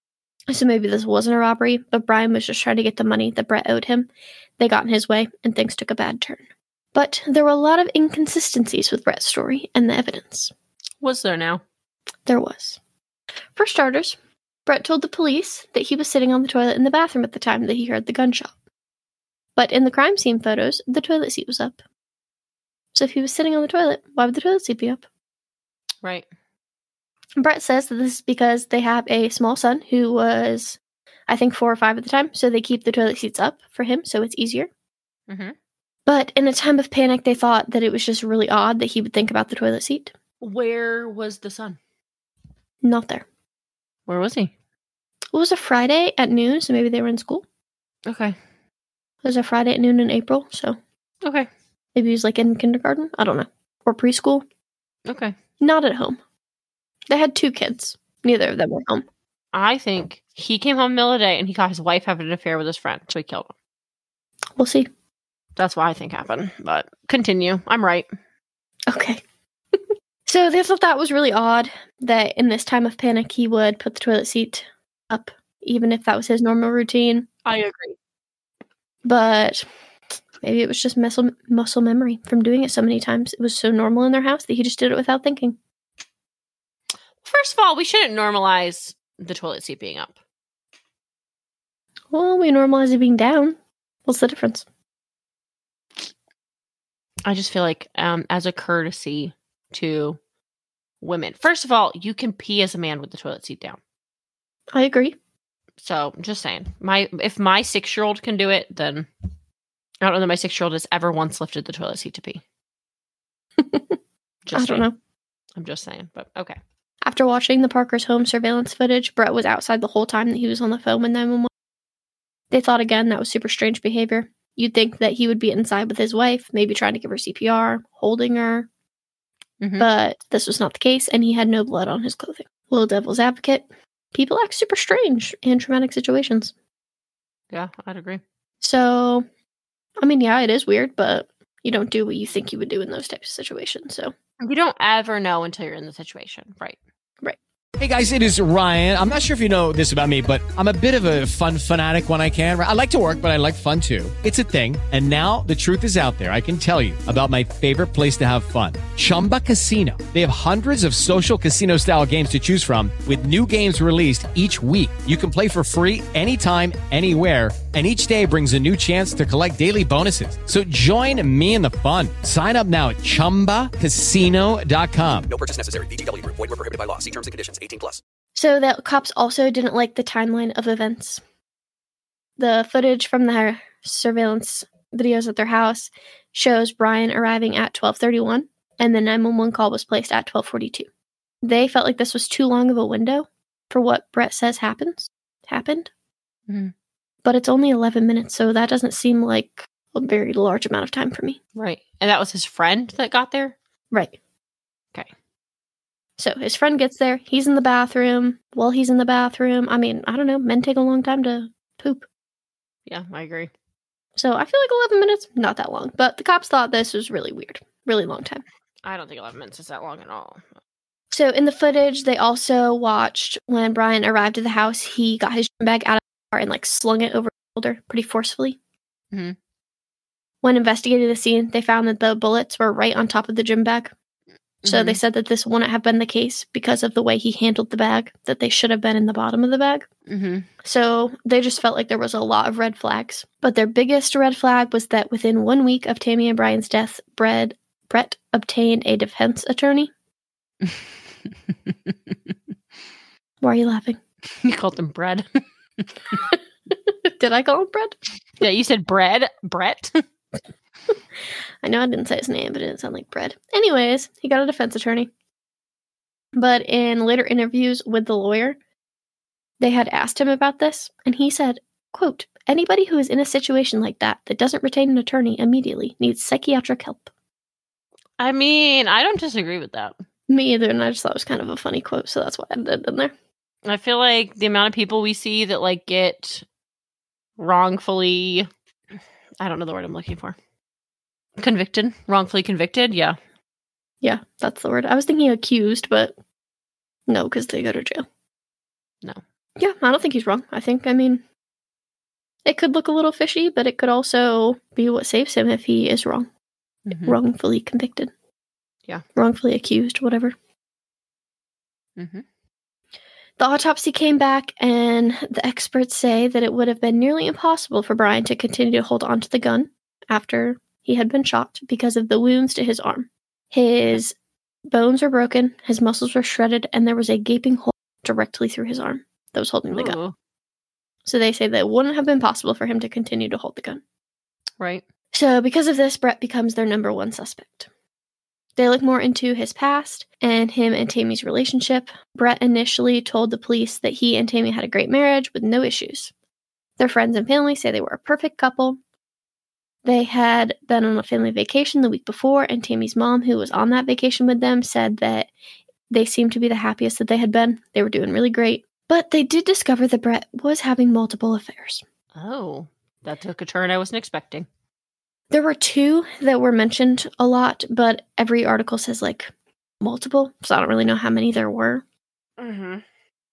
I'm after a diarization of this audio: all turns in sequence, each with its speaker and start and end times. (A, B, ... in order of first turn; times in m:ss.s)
0:00.5-0:06.4 A
0:06.9-0:10.5 A
0:11.0-0:11.6 B
0:12.2-0:12.8 A
0:13.6-0:18.5 A
0:19.6-0:21.8 A
0:22.9-0:25.0 A
0:26.0-0:26.3 B
0:27.4-0:34.7 A
0:35.3-0:35.5 B
0:36.0-0:40.1 A
0:40.4-0:41.8 B
0:42.8-0:43.2 A
0:44.1-0:44.5 B
0:45.3-0:47.4 A
0:48.0-0:48.4 B
0:49.2-0:50.8 A
0:51.2-0:51.5 B
0:51.9-0:54.4 A
0:55.0-0:55.3 B
0:55.6-0:56.2 A
0:57.1-0:59.0 A
0:59.5-1:03.5 B
1:04.6-1:04.9 A
1:05.6-1:08.1 B
1:08.9-1:09.2 A
1:09.7-1:17.3 A
1:17.4-1:18.0 B
1:19.0-1:19.6 A
1:20.4-1:25.6 A
1:27.2-1:30.1 B
1:32.1-1:34.6 A
1:37.2-1:40.2 B
1:41.0-1:43.8 B
1:44.7-1:45.2 A
1:45.8-1:49.1 B
1:50.0-1:52.4 B
1:53.6-1:53.9 A
1:54.4-1:54.9 B
1:54.5-1:55.0 A
1:55.6-1:56.6 B
1:57.0-2:01.5 A
2:02.5-2:08.7 A
2:09.6-2:09.9 B
2:09.8-2:16.5 A
2:17.5-2:18.2 B
2:18.6-2:19.2 A
2:20.0-2:24.1 A
2:24.4-2:26.8 B
2:27.8-2:55.3 C
2:55.3-2:58.0 D
2:58.3-3:01.2 A
3:02.4-3:10.9 A
3:11.4-3:15.9 A
3:16.5-3:16.7 B
3:17.2-3:21.4 A
3:21.6-3:23.6 B
3:23.9-3:24.2 A
3:26.2-3:32.0 A
3:32.9-3:33.5 B
3:34.2-3:38.4 A
3:38.8-3:40.5 B
3:41.1-3:48.6 A
3:49.1-3:49.4 B
3:50.4-3:53.9 A
3:54.6-3:55.0 B
3:54.6-3:59.9 A
4:00.1-4:00.5 B
4:00.6-4:09.9 A
4:11.7-4:12.1 B
4:13.4-4:14.0 A
4:14.4-4:15.2 B
4:16.3-4:18.0 A
4:18.4-4:20.0 B
4:21.6-4:25.1 A
4:26.3-4:28.6 A
4:29.6-4:37.1 A
4:38.2-4:40.0 B
4:40.3-4:43.1 A
4:43.6-4:46.4 B
4:47.4-4:48.5 B
4:49.4-4:50.4 B
4:51.4-4:53.2 B
4:54.0-4:56.1 A
4:57.1-4:58.0 A
4:59.6-5:01.2 A
5:02.4-5:06.3 A
5:06.8-5:07.2 B
5:07.0-5:08.1 A
5:09.2-5:10.3 A
5:12.0-5:12.2 B
5:13.4-5:24.1 A
5:24.7-5:30.0 A
5:29.7-5:30.1 B
5:31.0-5:33.8 A
5:34.6-5:34.8 B
5:35.1-5:37.7 A
5:38.6-5:46.1 A
5:46.8-5:48.8 A
5:49.8-5:55.3 A
5:55.9-6:01.8 A
6:02.1-6:04.5 B
6:05.3-6:11.8 A
6:12.4-6:12.8 B